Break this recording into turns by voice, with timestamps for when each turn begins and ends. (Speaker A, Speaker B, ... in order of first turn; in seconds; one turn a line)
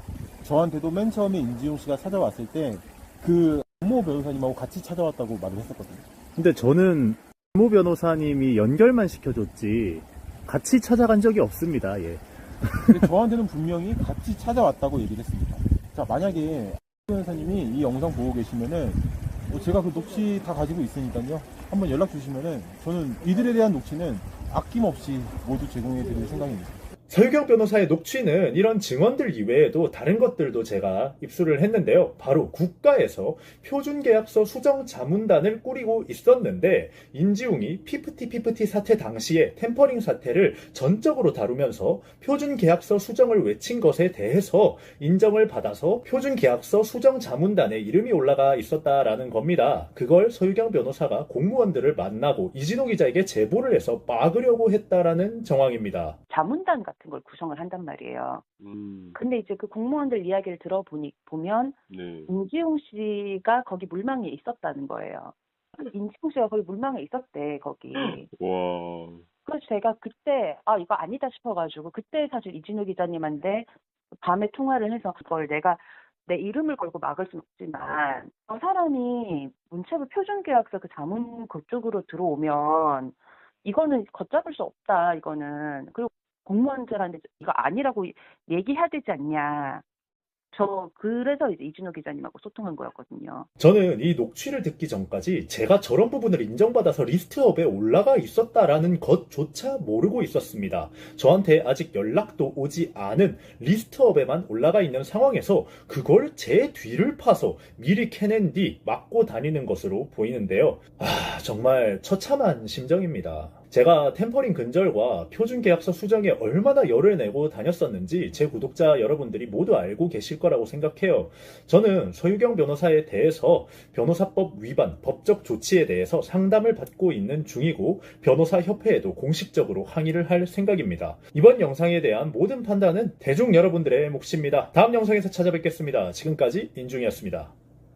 Speaker A: 0.4-6.0
Speaker B: 6.3-13.1
Speaker A: 12.9-26.8
Speaker C: 27.1-56.2
Speaker D: 56.3-58.4
Speaker E: 58.6-59.1
Speaker D: 59.1-68.3
Speaker E: 61.9-62.3
Speaker E: 68.0-69.2
Speaker D: 69.4-89.8
Speaker D: 90.5-93.5
Speaker C: 93.6-137.5